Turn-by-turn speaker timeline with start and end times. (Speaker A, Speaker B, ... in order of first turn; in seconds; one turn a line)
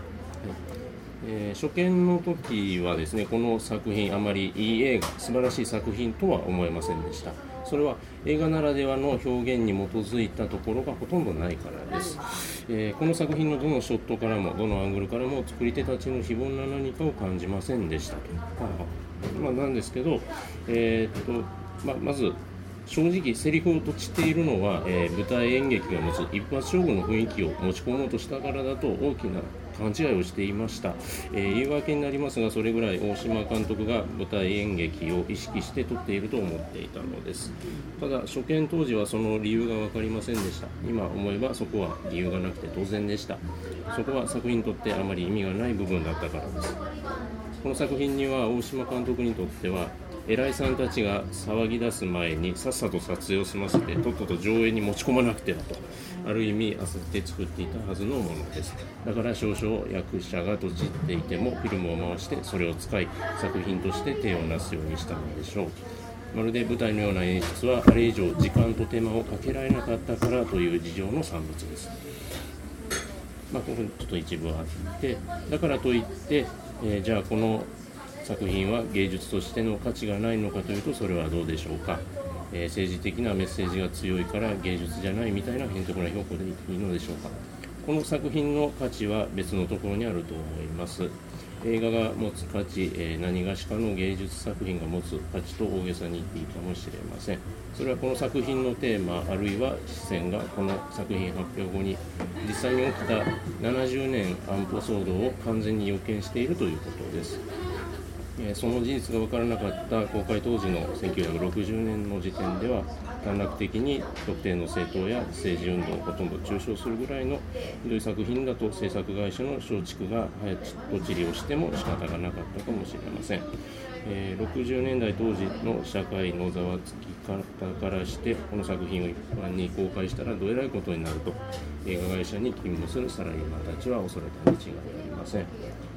Speaker A: 1.2-46.8
Speaker A: 47.6-65.8
Speaker A: 66.3-71.9
Speaker A: 73.5-77.7
Speaker A: 78.2-107.4
Speaker A: 108.4-123.5
Speaker A: 124.0-135.5